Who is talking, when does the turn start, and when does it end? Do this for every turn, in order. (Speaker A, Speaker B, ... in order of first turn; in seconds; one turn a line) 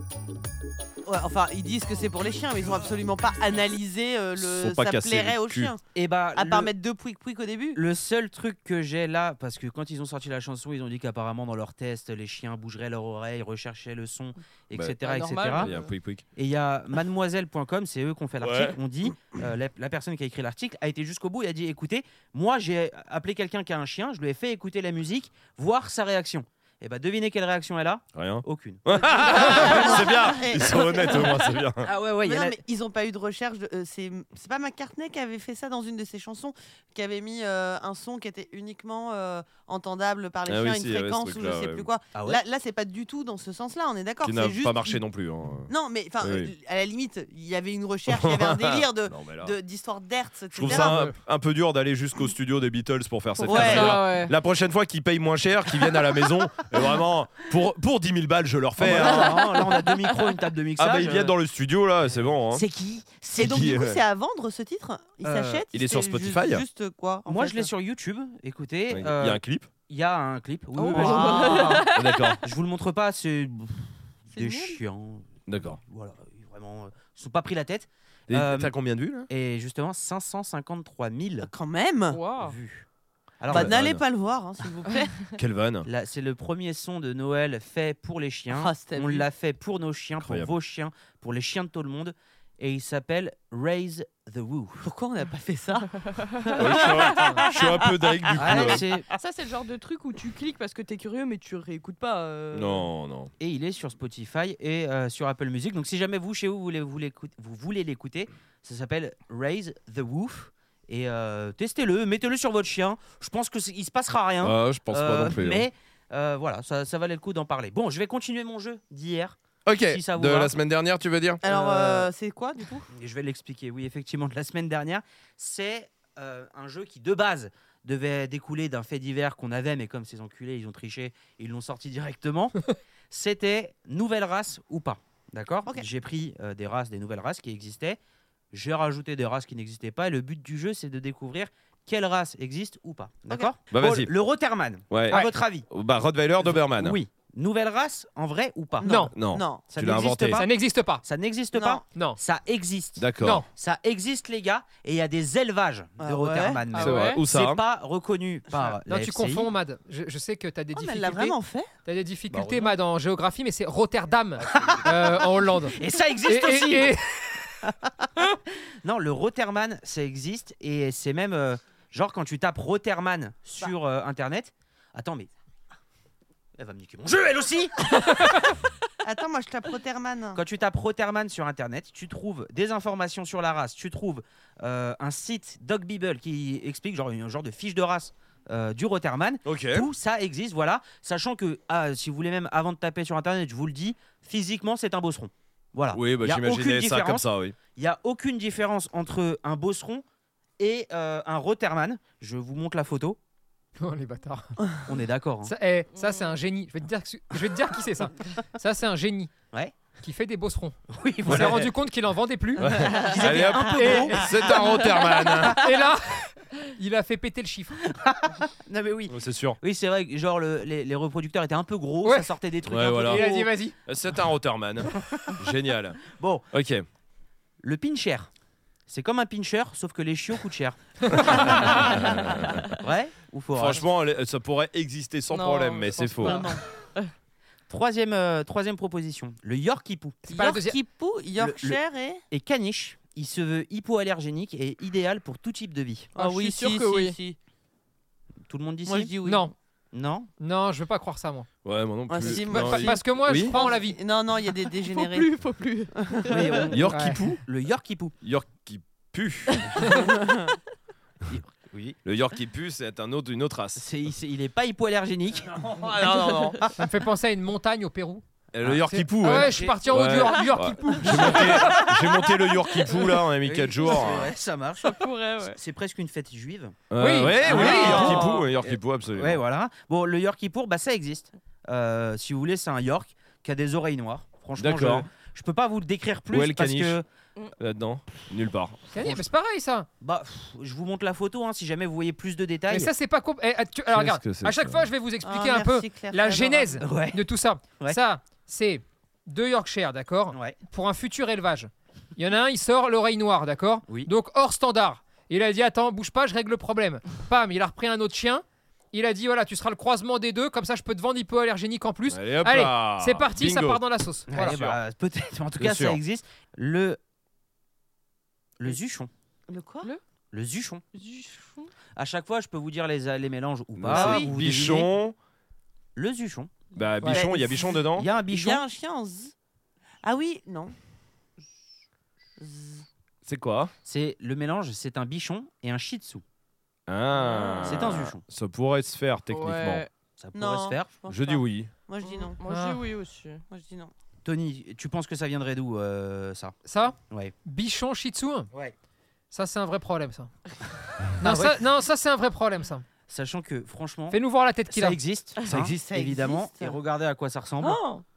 Speaker A: 1.1-5.8
Speaker B: 4.4-5.7
Speaker C: 5.9-6.7
Speaker A: 6.3-7.8
Speaker C: 7.8-15.7
Speaker B: 14.7-15.0
Speaker D: 15.0-15.9
Speaker B: 15.5-16.2
Speaker C: 16.4-30.1
Speaker B: 18.4-18.8
Speaker B: 28.1-31.9
Speaker A: 29.2-31.4
Speaker C: 31.8-32.6
Speaker A: 32.2-45.0
Speaker B: 40.5-41.9
Speaker C: 42.1-42.4
Speaker B: 44.2-45.7
Speaker A: 45.7-51.1
Speaker B: 46.2-46.5
Speaker B: 48.1-49.5
Speaker B: 50.5-59.5
Speaker D: 53.5-54.3
Speaker A: 53.5-54.0
Speaker C: 58.8-61.3
Speaker B: 60.8-62.6
Speaker C: 62.5-63.5
Speaker A: 63.4-67.7
Speaker B: 63.4-64.0
Speaker C: 65.2-65.7
Speaker B: 65.7-66.7
Speaker C: 67.3-71.9
Speaker B: 68.9-69.7
Speaker D: 70.8-72.4
Speaker A: 70.8-71.9
Speaker B: 72.0-72.4
Speaker C: 72.4-78.8
Speaker D: 74.3-74.8
Speaker B: 75.5-75.8
Speaker B: 78.3-79.3
Speaker C: 79.3-81.5
Speaker A: 81.4-82.2
Speaker D: 82.1-82.6
Speaker C: 82.4-82.9
Speaker C: 83.4-83.8
Speaker A: 83.5-85.3
Speaker B: 83.5-84.0
Speaker B: 85.4-85.9
Speaker C: 85.8-94.9
Speaker A: 88.5-89.3
Speaker B: 90.2-90.5
Speaker A: 94.8-98.7
Speaker D: 96.0-97.3
Speaker B: 96.6-98.8
Speaker C: 98.4-99.1
Speaker D: 98.6-102.9
Speaker B: 102.5-103.3
Speaker C: 103.4-120.5
Speaker B: 114.4-115.7
Speaker B: 119.7-121.4
Speaker A: 121.4-122.9
Speaker C: 121.5-122.1
Speaker C: 122.9-138.0
Speaker C: 138.5-145.7
Speaker B: 143.7-144.1
Speaker B: 144.9-147.0
Speaker C: 146.4-149.1
Speaker A: 148.8-149.7
Speaker E: 148.8-149.1
Speaker B: 149.1-150.5
Speaker C: 149.7-159.5
Speaker E: 150.3-151.1
Speaker A: 151.5-151.8
Speaker E: 151.9-152.2
Speaker B: 153.0-153.4
Speaker E: 153.2-153.5
Speaker A: 156.0-156.6
Speaker D: 156.7-157.2
Speaker B: 156.7-157.6
Speaker E: 158.8-167.5
Speaker A: 160.8-161.7
Speaker C: 162.3-162.7
Speaker C: 164.4-166.9
Speaker C: 168.8-175.3
Speaker C: 176.6-178.5
Speaker A: 179.0-180.4
Speaker C: 180.3-200.0
Speaker B: 189.4-189.9
Speaker B: 195.9-197.6
Speaker C: 200.6-203.2
Speaker E: 203.8-204.8
Speaker C: 204.9-205.5
Speaker E: 205.4-209.3
Speaker D: 205.9-206.3
Speaker E: 210.0-212.7
Speaker C: 210.9-211.7
Speaker B: 211.3-211.7
Speaker B: 212.6-215.6
Speaker C: 212.6-214.4
Speaker A: 212.9-213.5
Speaker E: 213.8-214.3
Speaker E: 215.4-217.8
Speaker C: 217.9-223.5
Speaker B: 219.1-219.6
Speaker E: 222.0-222.3
Speaker B: 222.7-226.0
Speaker E: 222.8-223.8
Speaker C: 226.1-226.5
Speaker B: 226.5-226.8
Speaker C: 227.6-228.3
Speaker C: 228.9-233.9
Speaker B: 231.2-232.6
Speaker B: 233.5-236.4
Speaker D: 235.3-237.1
Speaker A: 236.2-236.6
Speaker C: 237.7-240.3
Speaker E: 240.3-240.8
Speaker A: 240.3-242.2
Speaker C: 241.4-246.1
Speaker A: 246.2-247.4
Speaker D: 246.2-247.2
Speaker C: 248.5-249.1
Speaker A: 248.8-249.5
Speaker E: 249.2-249.5
Speaker C: 249.9-250.3
Speaker E: 250.4-251.5
Speaker B: 251.6-253.5
Speaker A: 252.1-255.3
Speaker E: 252.4-254.0
Speaker D: 254.8-256.7
Speaker A: 255.9-256.4
Speaker C: 256.3-258.1
Speaker B: 256.7-257.4
Speaker E: 256.9-257.2
Speaker B: 258.2-259.8
Speaker D: 259.5-259.9
Speaker A: 260.2-260.4
Speaker C: 261.3-262.0
Speaker B: 262.1-263.8
Speaker C: 263.8-266.7
Speaker B: 265.6-266.6
Speaker E: 266.8-268.2
Speaker B: 268.5-274.3
Speaker C: 268.6-270.1
Speaker E: 268.8-271.8
Speaker C: 271.1-271.7
Speaker D: 272.9-273.1
Speaker C: 273.4-287.1
Speaker D: 273.9-274.2
Speaker D: 274.8-275.6
Speaker B: 276.9-279.4
Speaker E: 277.0-278.2
Speaker B: 284.6-285.1
Speaker B: 286.3-287.0
Speaker B: 287.6-288.9
Speaker E: 288.9-289.9
Speaker C: 290.0-292.9
Speaker E: 292.7-314.6
Speaker B: 293.9-294.9
Speaker A: 295.2-296.8
Speaker C: 296.8-297.2
Speaker C: 300.3-300.6
Speaker B: 312.1-314.8
Speaker C: 314.3-317.0
Speaker B: 315.6-316.0
Speaker C: 318.6-319.1
Speaker A: 319.5-319.9
Speaker C: 320.3-320.8
Speaker D: 320.9-321.7
Speaker C: 322.0-324.9
Speaker B: 323.8-325.1
Speaker A: 323.9-324.3
Speaker C: 326.0-326.5
Speaker B: 326.7-328.1
Speaker C: 327.1-328.6
Speaker A: 328.3-329.3
Speaker A: 330.0-330.8
Speaker A: 332.4-332.9
Speaker B: 333.2-333.7
Speaker C: 333.9-336.2
Speaker B: 336.9-339.9
Speaker D: 337.1-337.9
Speaker C: 337.6-338.2
Speaker D: 339.3-339.9
Speaker C: 340.2-340.9
Speaker A: 340.3-342.4
Speaker B: 341.1-341.7
Speaker D: 342.0-343.4
Speaker E: 342.5-342.8
Speaker A: 343.5-343.9
Speaker C: 344.2-346.6
Speaker E: 346.6-348.5
Speaker E: 349.3-350.3
Speaker E: 351.2-352.9
Speaker C: 351.2-351.6
Speaker C: 353.1-357.8
Speaker E: 354.1-355.0
Speaker B: 355.5-355.8
Speaker A: 355.5-356.8
Speaker D: 357.6-358.0